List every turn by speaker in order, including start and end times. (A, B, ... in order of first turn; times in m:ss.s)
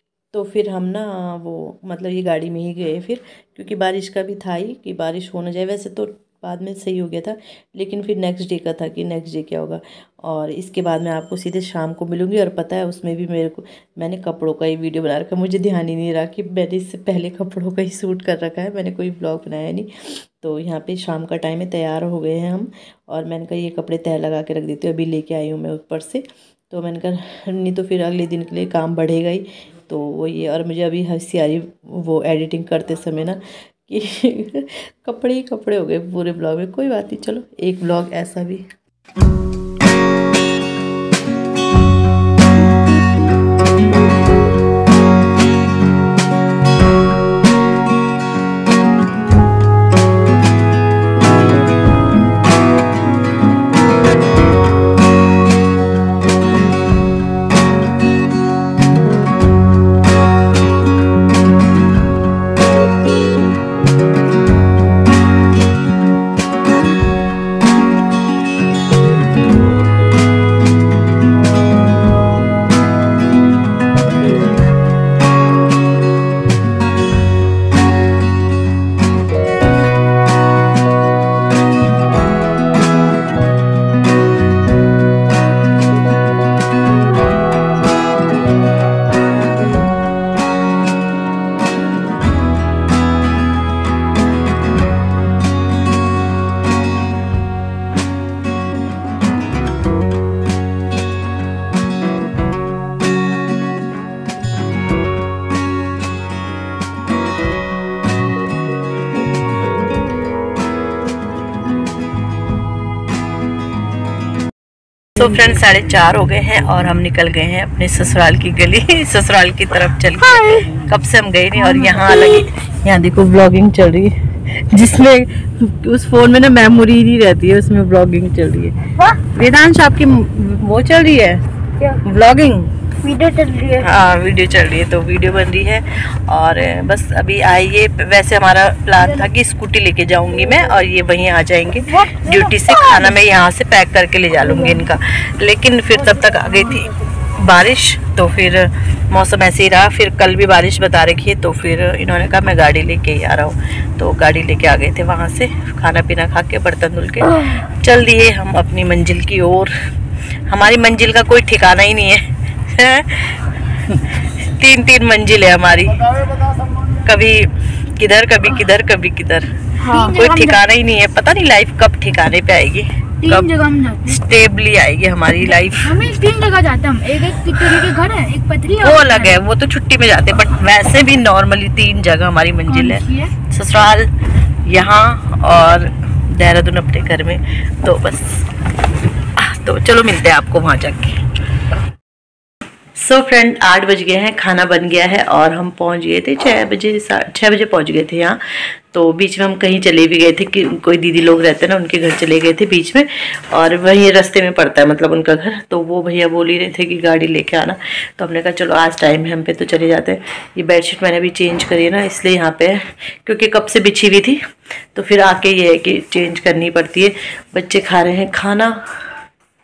0:00.3-0:38.7 A
1:55.2-2:12.8 A
2:13.1-2:13.6 B
2:13.6-2:39.7 A
2:40.4-2:53.5 A
2:49.8-2:50.6 B
2:53.2-2:54.2 B
2:54.0-2:56.2 A
2:55.4-2:59.4 B
2:57.2-2:57.9 A
2:58.7-3:04.1 A
3:02.7-3:03.3 B
3:04.6-3:08.4 A
3:09.4-3:11.2 A
3:13.0-3:34.4 A
3:34.9-3:38.8 A